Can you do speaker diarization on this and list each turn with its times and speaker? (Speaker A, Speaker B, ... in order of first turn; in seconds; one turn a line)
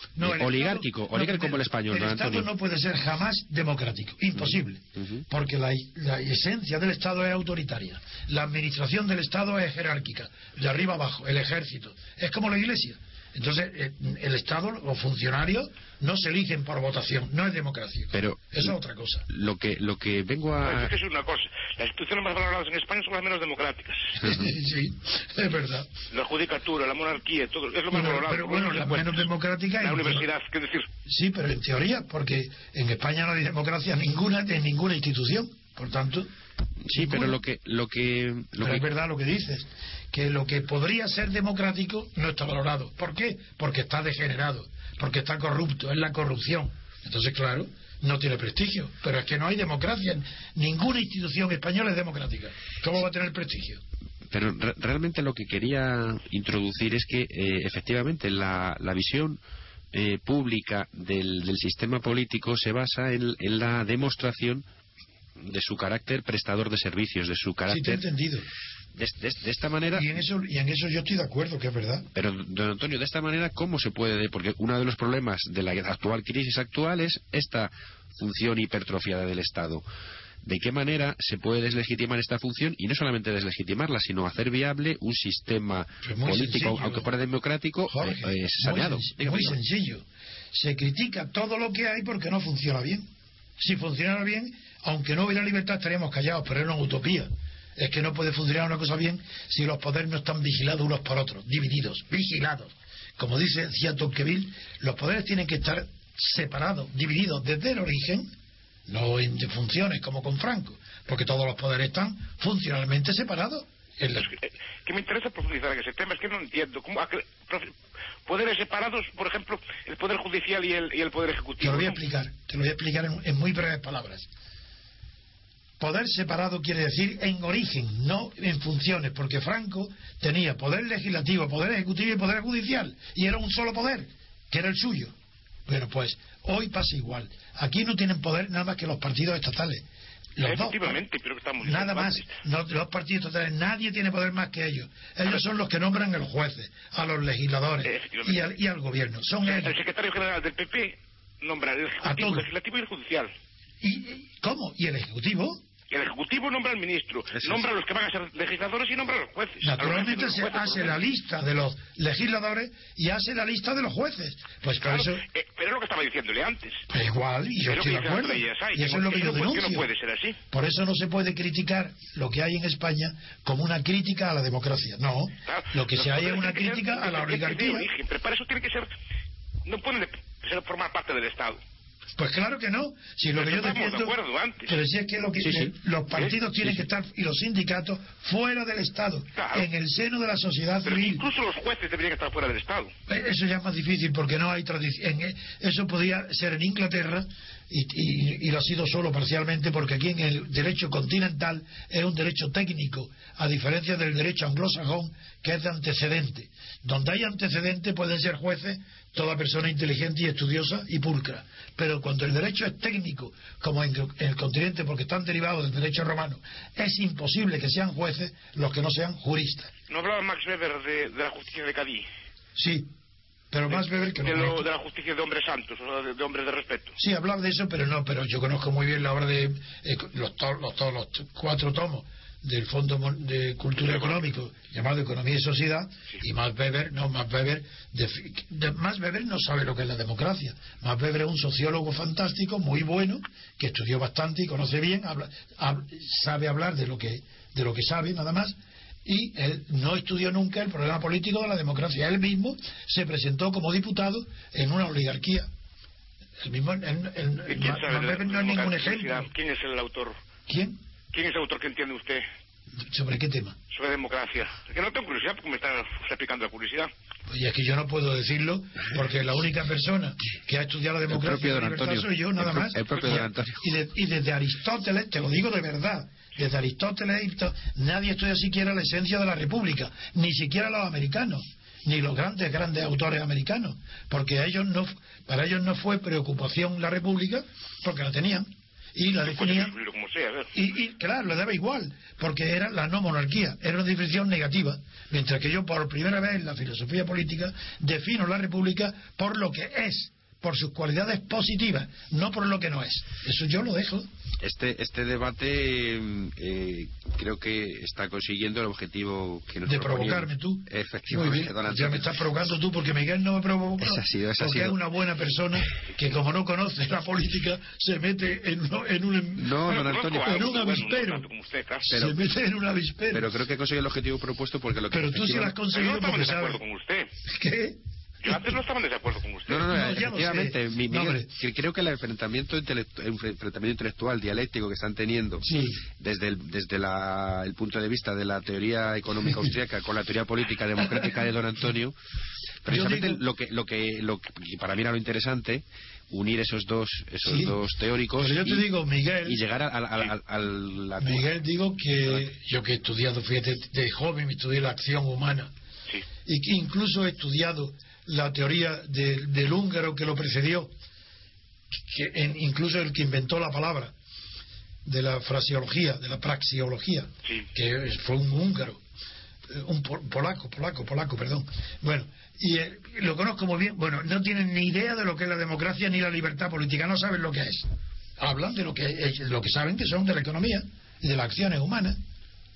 Speaker A: 0.2-19.3
Speaker B: 0.2-2.5
Speaker B: 5.0-5.2
Speaker B: 18.1-18.7
Speaker B: 19.3-20.9
Speaker C: 20.6-24.2
Speaker A: 24.2-25.9
Speaker C: 26.1-29.2
Speaker A: 27.9-30.3
Speaker C: 29.8-30.9
Speaker A: 31.1-36.3
Speaker B: 36.9-38.9
Speaker A: 36.9-37.4
Speaker A: 38.6-53.8
Speaker B: 54.3-59.4
Speaker B: 59.9-64.6
Speaker B: 65.4-68.0
Speaker A: 67.7-68.5
Speaker B: 69.0-70.1
Speaker A: 69.9-72.1
Speaker B: 72.1-79.8
Speaker B: 80.4-89.6
Speaker A: 86.0-87.1
Speaker A: 87.9-93.1
Speaker A: 93.6-108.3
Speaker A: 108.9-114.3
Speaker C: 114.2-117.7
Speaker C: 118.3-122.0
Speaker A: 121.6-124.3
Speaker A: 125.8-135.1
Speaker A: 135.7-139.8
Speaker A: 140.4-141.0
Speaker C: 140.4-142.3
Speaker A: 141.6-149.8
Speaker C: 147.8-148.5
Speaker C: 149.4-153.3
Speaker A: 152.0-152.5
Speaker A: 153.8-155.6
Speaker C: 155.9-161.0
Speaker B: 157.4-157.6
Speaker A: 159.6-165.2
Speaker C: 164.8-166.8
Speaker A: 166.9-169.9
Speaker C: 167.7-170.4
Speaker A: 170.5-177.9
Speaker C: 175.4-178.9
Speaker C: 179.7-181.6
Speaker A: 182.2-184.1
Speaker C: 183.3-184.8
Speaker A: 184.7-191.3
Speaker B: 185.4-185.7
Speaker C: 189.3-189.7
Speaker C: 190.8-192.9
Speaker A: 193.1-219.7
Speaker C: 219.9-222.1
Speaker A: 222.6-222.9
Speaker A: 223.5-224.6
Speaker C: 223.7-227.0
Speaker A: 227.0-255.5
Speaker C: 233.8-234.2
Speaker A: 256.4-259.3
Speaker C: 257.5-260.2
Speaker A: 260.5-260.8
Speaker C: 261.1-262.2
Speaker A: 262.8-263.6
Speaker C: 263.7-266.9
Speaker A: 267.3-289.8
Speaker B: 271.1-273.6
Speaker C: 289.2-290.5
Speaker A: 290.5-304.1
Speaker B: 304.4-312.1
Speaker A: 309.6-319.6
Speaker B: 313.8-314.8
Speaker B: 319.4-320.6
Speaker C: 319.7-321.9
Speaker A: 320.2-321.3
Speaker A: 321.9-323.3
Speaker B: 321.9-322.2
Speaker B: 323.1-325.5
Speaker A: 324.9-326.6
Speaker C: 325.7-327.1
Speaker A: 327.2-328.5
Speaker C: 328.2-329.7
Speaker B: 329.5-341.9
Speaker A: 329.5-331.3
Speaker A: 335.4-335.9
Speaker B: 342.6-348.6
Speaker A: 342.7-343.2
Speaker A: 347.2-347.6
Speaker A: 348.2-349.4
Speaker B: 349.2-351.3
Speaker A: 351.0-355.5
Speaker B: 352.0-352.3
Speaker A: 356.2-360.7
Speaker A: 361.9-363.9
Speaker A: 364.9-368.8
Speaker A: 369.5-377.7
Speaker A: 378.2-382.0